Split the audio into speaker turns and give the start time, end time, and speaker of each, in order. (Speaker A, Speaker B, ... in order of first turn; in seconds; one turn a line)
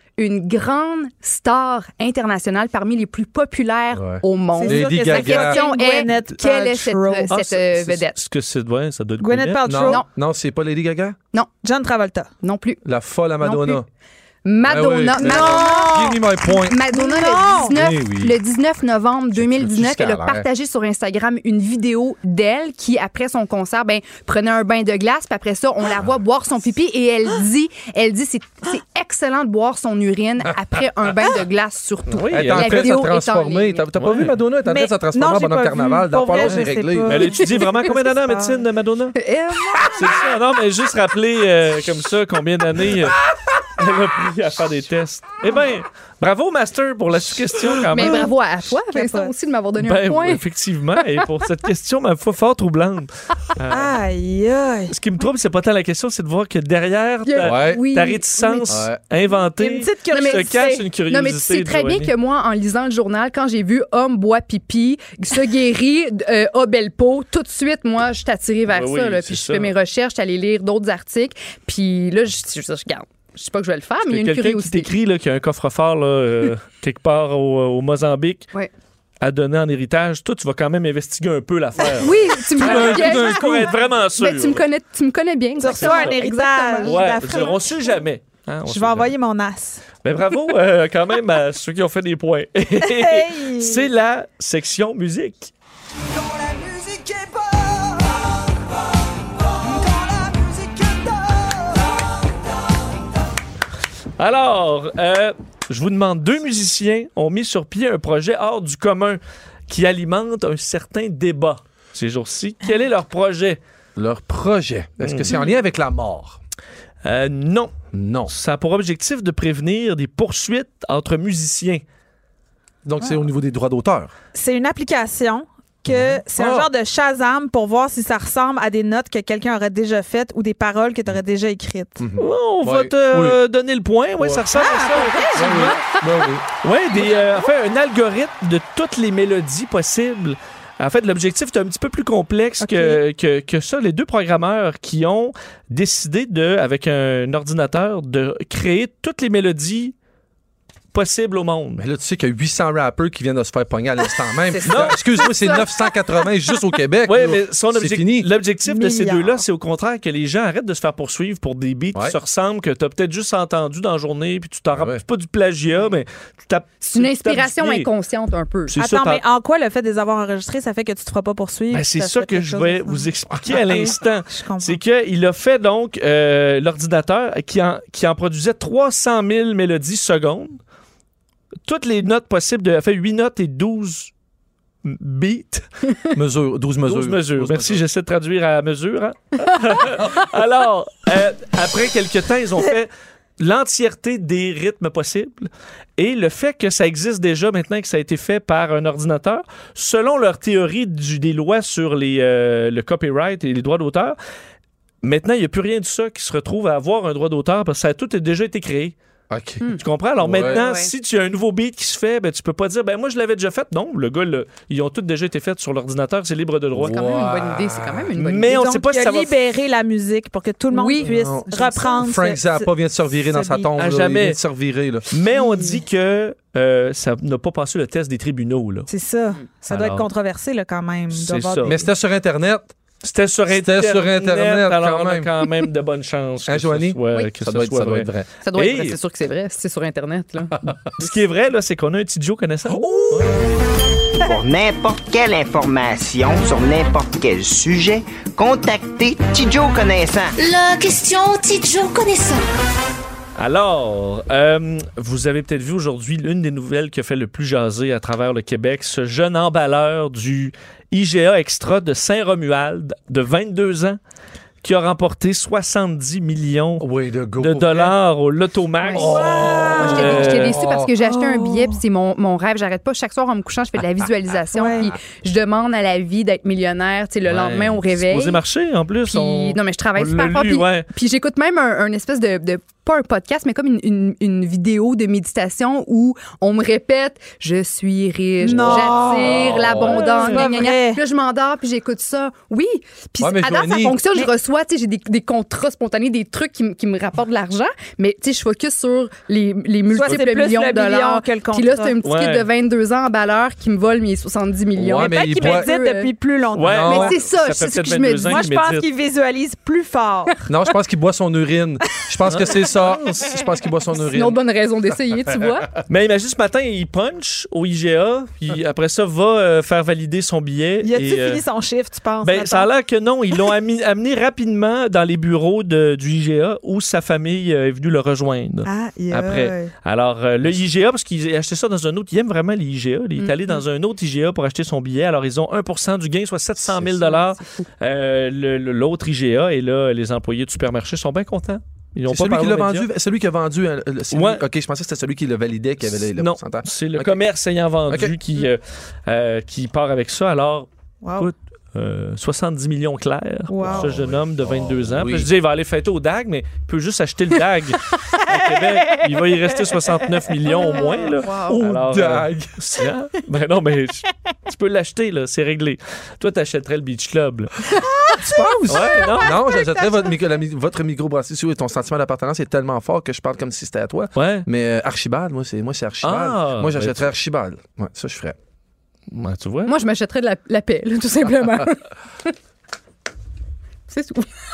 Speaker A: 0.2-8.2
Speaker B: 3.9-5.6
Speaker C: 4.5-7.8
Speaker D: 8.1-9.8
Speaker C: 9.2-10.0
Speaker B: 9.6-11.2
Speaker C: 11.6-12.3
Speaker A: 12.4-12.8
Speaker B: 12.8-13.8
Speaker C: 13.4-13.8
Speaker A: 14.4-33.9
Speaker B: 14.6-16.9
Speaker C: 15.2-16.2
Speaker C: 16.9-17.7
Speaker B: 17.6-18.4
Speaker B: 19.3-20.4
Speaker B: 30.5-31.1
Speaker D: 32.1-33.0
Speaker B: 32.3-37.4
Speaker D: 34.0-34.4
Speaker C: 34.6-38.6
Speaker D: 37.1-39.1
Speaker A: 39.1-40.2
Speaker D: 39.9-43.2
Speaker D: 43.8-48.3
Speaker A: 47.9-50.4
Speaker C: 48.9-49.3
Speaker D: 49.8-54.0
Speaker C: 53.7-54.9
Speaker D: 54.9-62.1
Speaker A: 57.2-58.8
Speaker B: 57.4-57.8
Speaker B: 58.7-59.0
Speaker C: 59.6-60.8
Speaker A: 60.1-74.9
Speaker D: 68.7-69.7
Speaker D: 74.0-78.5
Speaker D: 79.2-84.6
Speaker A: 82.0-83.5
Speaker B: 82.5-83.7
Speaker A: 84.2-87.5
Speaker C: 85.6-87.9
Speaker D: 85.7-86.2
Speaker D: 86.8-89.1
Speaker C: 88.7-89.8
Speaker D: 90.0-95.5
Speaker C: 92.8-93.9
Speaker C: 99.7-101.1
Speaker D: 104.2-113.6
Speaker B: 114.0-116.4
Speaker D: 115.0-115.3
Speaker D: 117.0-117.7
Speaker B: 117.9-118.3
Speaker D: 118.3-121.8
Speaker B: 122.8-124.1
Speaker C: 124.3-132.0
Speaker B: 125.8-126.7
Speaker B: 132.0-133.4
Speaker D: 132.2-135.7
Speaker B: 134.2-134.4
Speaker C: 134.5-135.7
Speaker B: 135.3-136.4
Speaker A: 135.6-136.0
Speaker D: 136.6-149.9
Speaker C: 142.6-143.0
Speaker D: 150.9-151.8
Speaker B: 151.8-158.3
Speaker A: 154.5-155.7
Speaker D: 154.6-155.0
Speaker D: 157.1-167.9
Speaker C: 158.7-159.4
Speaker B: 164.7-165.0
Speaker A: 166.8-168.7
Speaker D: 168.7-169.2
Speaker C: 168.7-174.8
Speaker D: 171.7-180.6
Speaker D: 181.7-184.1
Speaker D: 184.8-185.6
Speaker B: 186.2-187.8
Speaker D: 186.9-204.2
Speaker D: 205.0-208.9
Speaker B: 209.3-210.6
Speaker D: 209.8-216.9
Speaker A: 210.4-210.9
Speaker B: 216.7-218.1
Speaker A: 216.8-218.5
Speaker D: 218.2-219.3
Speaker C: 218.4-223.7
Speaker A: 220.7-221.8
Speaker B: 221.0-225.1
Speaker D: 223.8-224.4
Speaker D: 225.1-228.9
Speaker C: 228.9-231.9
Speaker D: 229.7-230.1
Speaker D: 231.1-231.8
Speaker B: 231.7-232.7
Speaker D: 233.0-239.0
Speaker B: 233.5-235.3
Speaker B: 236.4-238.3
Speaker A: 238.4-241.1
Speaker D: 241.0-243.4
Speaker B: 242.7-243.3
Speaker E: 244.2-250.3
Speaker F: 250.4-252.4
Speaker D: 253.4-264.0
Speaker D: 264.6-266.9
Speaker B: 266.8-267.9
Speaker D: 267.4-270.6
Speaker C: 268.9-270.2
Speaker B: 268.9-270.9
Speaker A: 269.8-278.4
Speaker C: 271.0-271.8
Speaker C: 274.5-274.9
Speaker D: 277.3-280.9
Speaker A: 279.1-306.1
Speaker C: 288.4-291.0
Speaker B: 288.6-290.4
Speaker B: 293.2-294.0
Speaker C: 299.9-301.9
Speaker D: 302.0-302.5
Speaker B: 304.7-305.7
Speaker C: 305.0-307.1
Speaker D: 306.6-308.9
Speaker B: 306.6-307.1
Speaker A: 306.9-308.4
Speaker C: 308.3-310.5
Speaker B: 310.5-314.4
Speaker D: 312.3-313.0
Speaker A: 314.0-315.7
Speaker B: 315.2-315.8
Speaker D: 315.9-321.4
Speaker C: 320.8-322.7
Speaker D: 322.2-342.9
Speaker C: 328.6-329.7
Speaker C: 333.2-333.6
Speaker B: 336.6-337.1
Speaker B: 342.1-347.2
Speaker D: 344.1-344.4
Speaker D: 345.9-367.6
Speaker B: 347.9-348.1
Speaker C: 351.0-351.3
Speaker C: 353.5-354.0
Speaker B: 353.6-355.3
Speaker C: 358.3-359.2
Speaker C: 360.4-361.4
Speaker A: 361.2-361.6
Speaker B: 361.6-362.6
Speaker C: 367.7-370.1
Speaker B: 368.1-378.4
Speaker D: 368.7-369.4
Speaker D: 374.1-374.5
Speaker D: 376.0-377.1
Speaker D: 379.1-379.7
Speaker A: 379.6-382.3
Speaker A: 383.9-384.3